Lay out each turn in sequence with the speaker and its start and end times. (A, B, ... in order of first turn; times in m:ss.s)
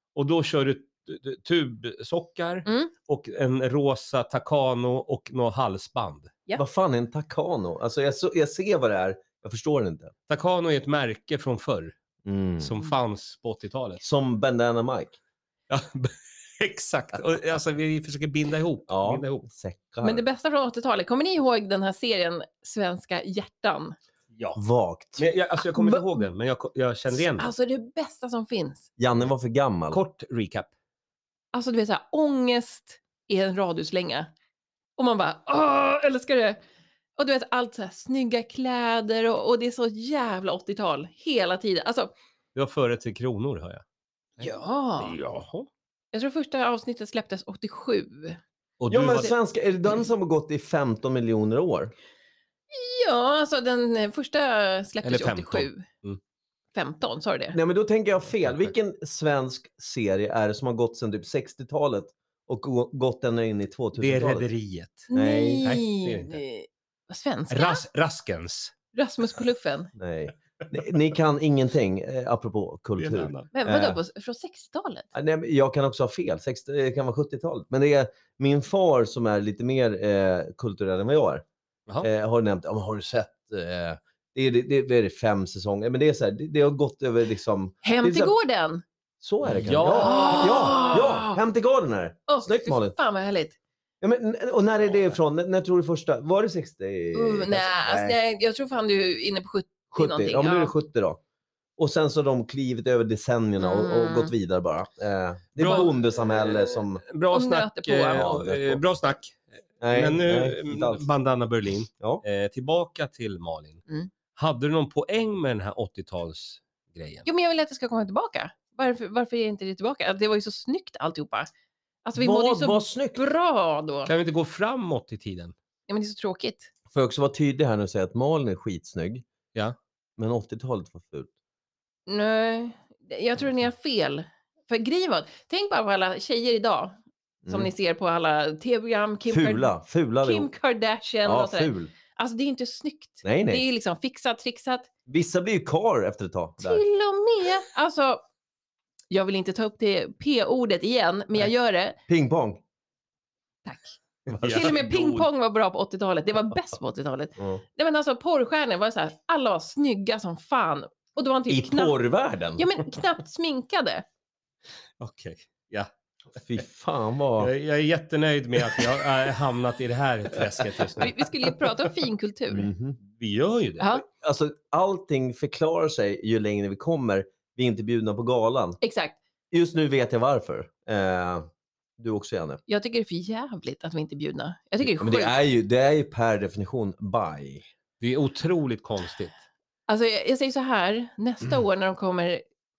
0:00.2-0:06.3 A
0:02.7-0:02.9 B
0:06.6-0:10.1 C
0:10.3-0:12.0 A
0:12.2-0:12.7 C
0:12.6-0:14.0 A
0:14.0-0:15.2 C
0:15.7-0:19.5 A
0:18.9-0:20.2 C
0:20.0-0:24.0 B
0:24.3-0:24.6 A
0:24.6-0:25.2 C
0:25.2-0:27.5 A
0:27.1-0:28.9 B
0:29.0-0:30.0 C
0:29.9-0:30.7 A
0:31.5-0:34.3 B
0:35.0-0:36.6 B
0:37.2-0:42.1 B
0:42.6-0:43.8 A
0:44.4-0:45.7 A
0:44.4-0:45.2 B
0:46.1-0:48.4 B
0:48.8-0:49.3 A
0:48.9-0:51.9 C
0:52.7-0:55.8 B
0:55.0-0:56.2 A
0:56.8-0:57.6 B
0:57.5-1:04.5 C
1:04.0-1:06.4 A
1:05.1-1:07.8 B
1:05.1-1:05.7 C
1:07.5-1:08.7 A
1:08.9-1:09.9 B
1:10.0-1:14.0 C
1:13.0-1:13.5 A
1:13.5-1:15.1 B
1:15.1-1:21.4 C
1:22.0-1:28.3 C
1:27.8-1:28.8 B
1:29.2-1:33.0 C
1:29.4-1:31.0 A
1:29.9-1:31.4 B
1:32.3-1:33.6 B
1:34.0-1:38.2 C
1:37.1-1:40.7 B
1:39.9-1:41.2 C
1:41.8-1:47.0 C
1:43.6-1:44.3 B
1:45.6-1:53.8 A
1:47.3-1:48.3 B
1:48.2-1:48.8 C
1:49.8-1:51.0 C
1:54.4-1:57.3 A
1:57.3-2:01.5 B
2:02.0-2:04.1 B
2:02.2-2:03.3 C
2:04.1-2:05.6 A
2:05.9-2:06.7 B
2:06.9-2:09.2 C
2:10.2-2:11.3 C
2:12.1-2:19.7 B
2:17.4-2:17.7 C
2:19.3-2:20.5 C
2:20.2-2:24.9 B
2:21.2-2:21.9 C
2:23.2-2:23.6 C
2:25.1-2:26.8 C
2:26.6-2:28.2 B
2:29.1-2:32.0 B
2:32.1-2:32.6 C
2:33.6-2:42.0 B
2:34.3-2:35.3 A
2:34.3-2:34.7 C
2:41.5-2:42.7 C
2:42.6-2:44.0 B
2:45.0-2:45.9 A
2:46.4-2:47.5 C
2:47.4-2:51.2 A
2:51.0-2:52.7 B
2:52.5-2:53.0 C
2:53.0-2:54.0 A
2:54.2-2:58.8 C
2:58.8-2:59.2 B
2:59.5-3:02.6 C
3:02.7-3:05.3 B
3:04.8-3:07.7 C
3:08.0-3:09.4 A
3:09.9-3:12.4 B